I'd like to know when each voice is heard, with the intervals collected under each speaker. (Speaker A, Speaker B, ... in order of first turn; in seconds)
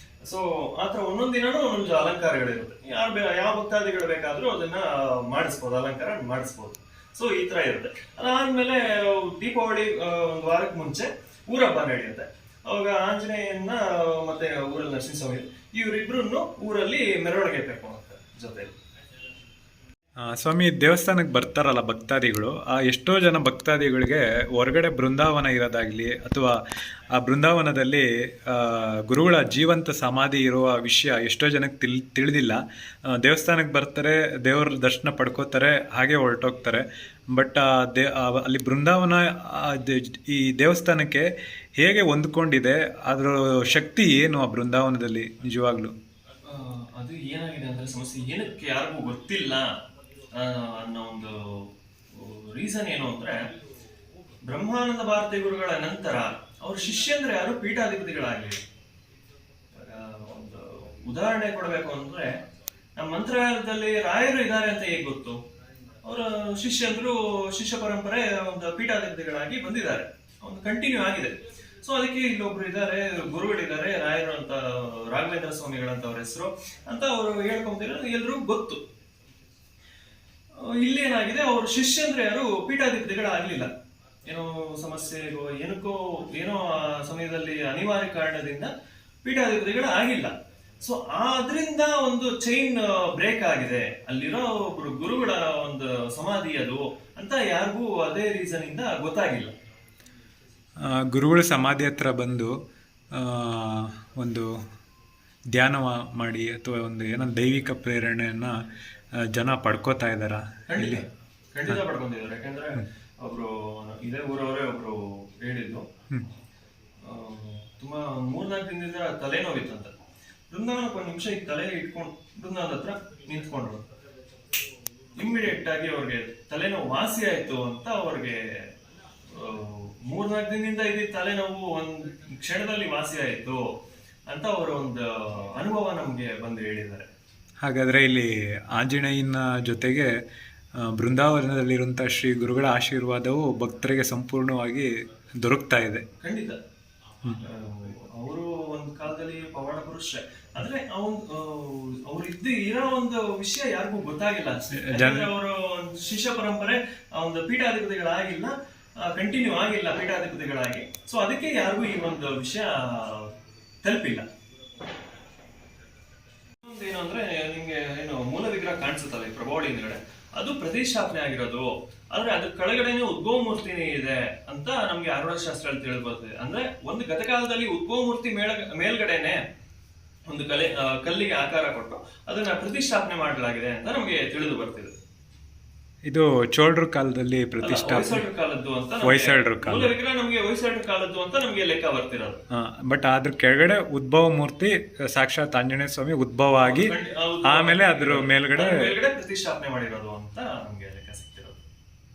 Speaker A: 0.2-18.7, 46.5-49.7, 50.3-53.5, 54.5-58.6, 59.8-62.4, 63.0-65.4, 66.0-78.8, 80.6-83.7, 84.2-88.7, 89.2-99.5, 110.7-115.9, 117.0-119.9, 120.5-123.8, 125.2-128.7, 129.3-133.7, 134.3-137.1, 146.2-146.6, 147.4-163.3, 163.8-164.3, 166.6-179.4, 180.3-184.9, 187.6-192.4, 196.6-201.6
Speaker B: 20.3-26.5, 27.2-32.6, 33.2-41.2, 41.8-45.9, 101.0-102.5, 103.2-104.5, 105.5-108.6, 109.2-111.0, 137.6-140.1, 140.9-146.1, 154.9-155.3, 186.1-188.2, 189.0-189.9, 192.5-196.9, 197.5-198.7